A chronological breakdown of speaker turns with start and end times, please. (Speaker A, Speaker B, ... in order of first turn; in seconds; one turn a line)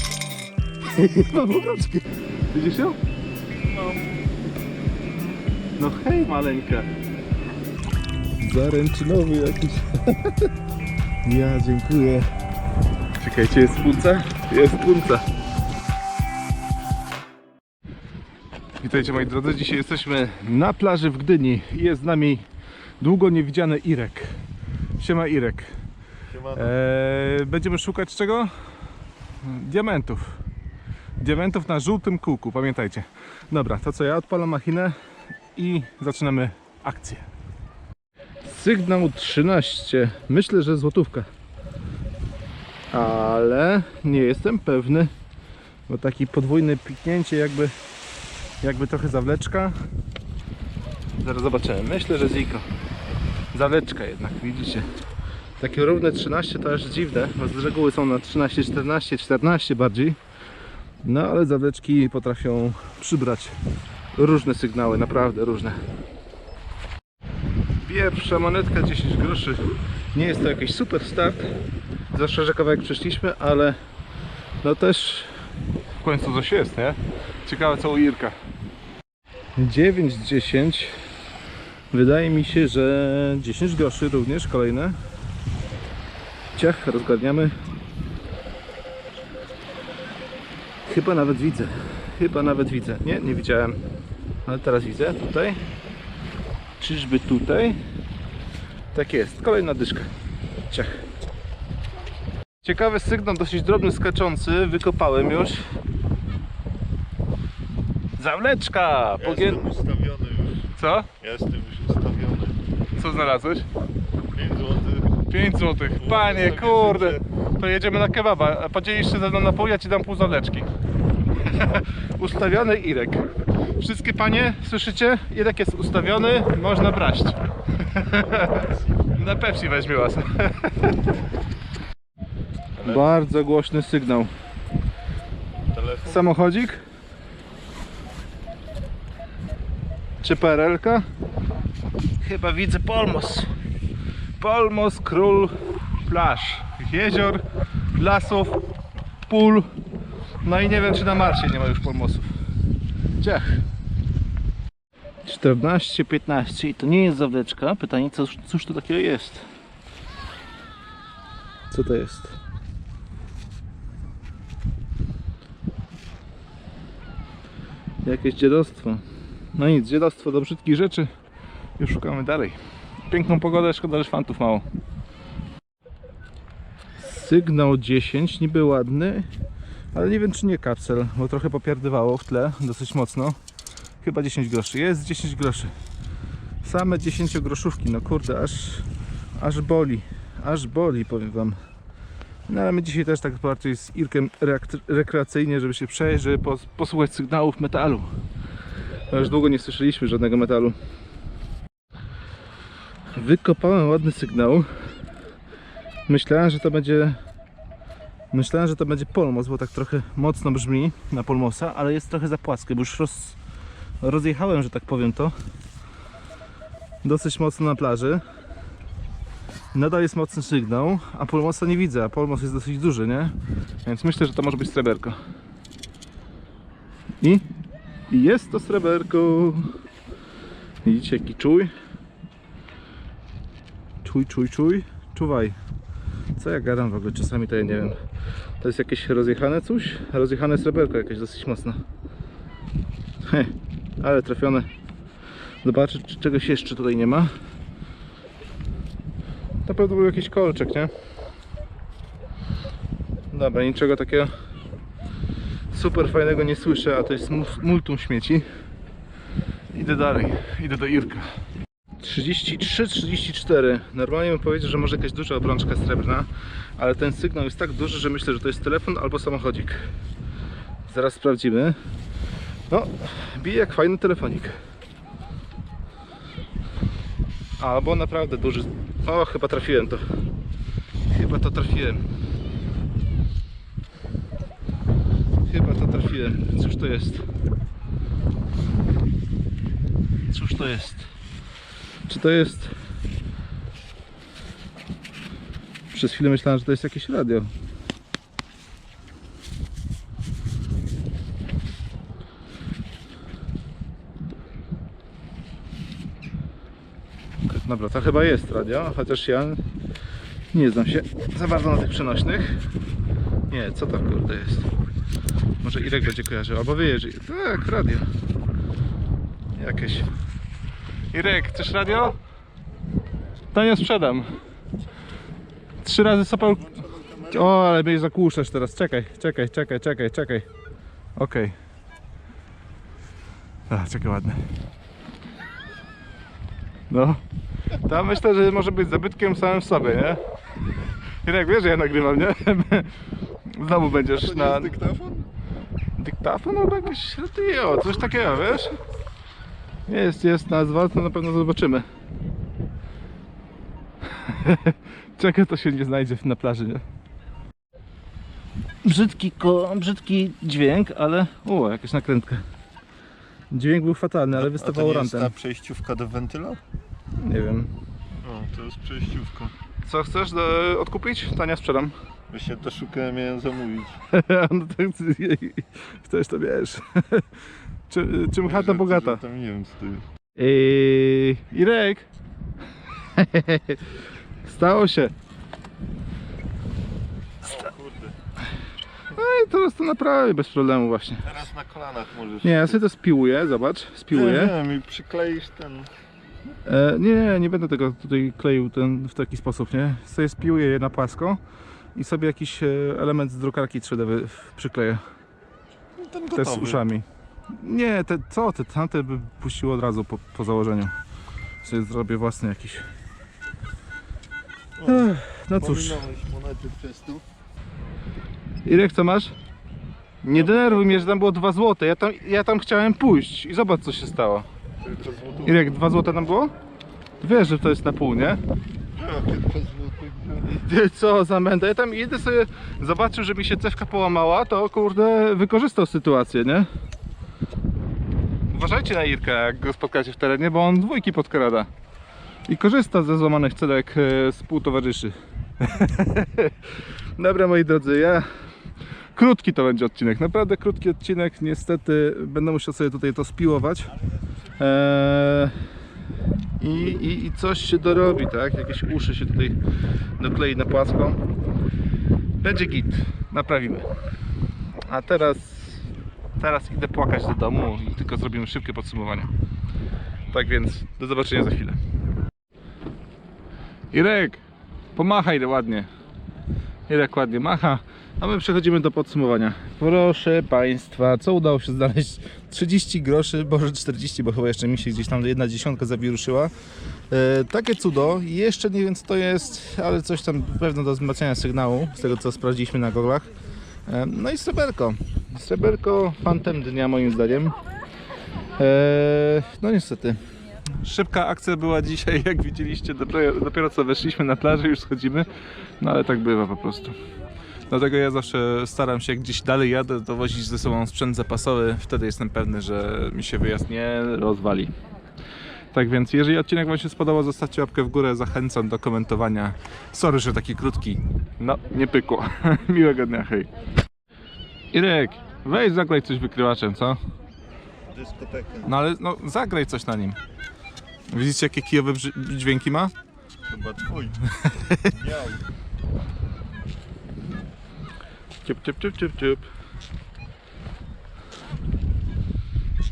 Speaker A: 0.9-3.0
Speaker B: 3.7-4.0
Speaker A: 5.8-6.9
Speaker A: 8.4-10.5
Speaker A: 11.2-12.3
Speaker A: 13.2-15.2
Speaker A: 18.8-22.4
Speaker A: 23.0-24.4
Speaker A: 25.0-25.7
Speaker B: 26.3-26.7
Speaker A: 26.5-28.5
Speaker A: 29.4-30.4
Speaker A: 31.2-35.0
Speaker A: 35.5-37.2
Speaker A: 38.4-41.3
Speaker A: 42.9-45.1
Speaker A: 45.9-47.7
Speaker A: 48.6-49.8
Speaker A: 51.2-52.6
Speaker A: 53.5-54.9
Speaker A: 55.6-60.2
Speaker A: 61.0-63.5
Speaker A: 64.2-65.8
Speaker A: 67.8-69.6
Speaker A: 70.1-71.5
Speaker A: 72.1-73.8
Speaker A: 74.6-75.3
Speaker A: 76.0-78.3
Speaker A: 79.6-81.0
Speaker A: 81.9-85.0
Speaker A: 86.5-87.5
Speaker A: 90.9-93.8
Speaker A: 94.5-95.6
Speaker A: 96.8-97.8
Speaker A: 98.9-100.1
Speaker A: 100.7-101.0
Speaker A: 102.6-105.6
Speaker A: 108.2-109.6
Speaker B: 109.2-110.7
Speaker A: 110.8-111.1
Speaker B: 111.2-112.6
Speaker A: 113.0-113.7
Speaker B: 114.3-115.2
Speaker A: 115.3-120.7
Speaker B: 116.0-117.2
Speaker A: 121.4-123.3
Speaker A: 123.8-131.0
Speaker B: 132.8-133.0
Speaker A: 132.8-134.3
Speaker B: 135.7-136.3
Speaker A: 136.1-136.8
Speaker A: 140.2-141.1
Speaker A: 142.2-143.5
Speaker A: 144.4-147.4
Speaker A: 147.9-148.6
Speaker A: 149.3-149.7
Speaker A: 150.4-152.3
Speaker A: 153.2-153.6
Speaker A: 155.2-159.5
Speaker A: 161.7-162.4
Speaker A: 168.0-169.0
Speaker A: 169.5-171.1
Speaker A: 171.8-172.6
Speaker A: 173.1-174.7
Speaker A: 177.0-179.3
Speaker A: 179.9-183.4
Speaker A: 184.0-185.7
Speaker A: 186.6-191.6
Speaker A: 192.5-198.1
Speaker A: 199.1-200.8
Speaker A: 203.1-204.7
Speaker A: 206.1-207.2
Speaker A: 208.3-213.4
Speaker A: 214.0-215.3
Speaker A: 217.0-218.2
Speaker A: 219.7-223.3
Speaker A: 223.8-225.2
Speaker A: 228.1-229.7
Speaker A: 230.8-231.7
Speaker A: 234.0-235.6
Speaker A: 236.3-238.0
Speaker A: 238.6-241.8
Speaker A: 243.2-244.7
Speaker A: 245.6-247.3
Speaker A: 249.7-250.9
Speaker A: 253.3-254.3
Speaker A: 255.7-258.4
Speaker A: 259.7-261.3
Speaker A: 262.0-269.9
Speaker A: 270.9-271.8
Speaker A: 272.7-274.6
Speaker A: 277.6-280.1
Speaker A: 281.1-282.1
Speaker A: 285.4-287.2
Speaker A: 290.3-291.1
Speaker A: 292.1-292.7
Speaker A: 295.9-297.5
Speaker A: 307.5-309.6
Speaker A: 310.5-312.6
Speaker A: 313.5-314.7
Speaker A: 315.6-318.1
Speaker A: 319.6-320.1
Speaker A: 321.1-322.2
Speaker A: 323.5-324.3
Speaker A: 325.8-330.4
Speaker A: 331.2-331.6
Speaker A: 333.7-334.4
Speaker A: 336.9-337.2
Speaker A: 337.8-340.2
Speaker A: 341.2-342.9
Speaker A: 343.5-344.8
Speaker B: 344.0-345.3
Speaker A: 346.0-348.8
Speaker A: 349.9-351.9
Speaker A: 354.1-356.8
Speaker A: 358.8-362.4
Speaker A: 363.5-365.3
Speaker B: 364.3-366.6
Speaker A: 367.2-367.7
Speaker B: 368.2-369.5
Speaker A: 369.9-371.9
Speaker B: 372.3-374.0
Speaker A: 374.1-379.2
Speaker B: 378.4-380.1
Speaker A: 380.4-382.1
Speaker A: 383.1-383.8
Speaker A: 384.4-385.1
Speaker B: 387.4-388.1
Speaker A: 389.1-391.3
Speaker B: 391.2-392.8
Speaker A: 392.4-394.5
Speaker B: 394.1-395.9
Speaker A: 396.6-401.4
Speaker A: 401.9-405.0
Speaker B: 406.0-406.8
Speaker A: 406.3-410.9
Speaker A: 411.6-412.8
Speaker B: 414.8-417.2
Speaker A: 414.9-416.0
Speaker A: 418.6-419.3
Speaker A: 420.2-424.5
Speaker B: 424.9-425.6
Speaker A: 425.4-426.5
Speaker A: 427.2-428.4
Speaker B: 428.9-430.6
Speaker A: 430.5-436.7
Speaker A: 438.5-441.7
Speaker A: 442.5-446.6
Speaker A: 447.2-448.2
Speaker A: 449.1-453.9
Speaker A: 454.6-455.6
Speaker A: 456.6-459.6
Speaker A: 460.2-461.2
Speaker A: 462.4-463.9
Speaker A: 464.9-465.8
Speaker A: 466.4-469.3
Speaker A: 470.3-471.8
Speaker A: 473.9-474.4
Speaker A: 475.0-475.9
Speaker A: 476.9-486.5
Speaker A: 487.1-493.3
Speaker A: 493.9-497.6
Speaker A: 498.6-500.2
Speaker A: 500.8-505.3
Speaker A: 505.8-506.9
Speaker A: 507.7-514.7
Speaker A: 515.7-523.5
Speaker A: 524.7-527.0
Speaker B: 527.9-528.7
Speaker A: 528.6-530.2
Speaker A: 531.1-532.9
Speaker B: 533.5-534.3
Speaker A: 534.4-534.9
Speaker B: 534.8-535.4
Speaker A: 538.4-539.5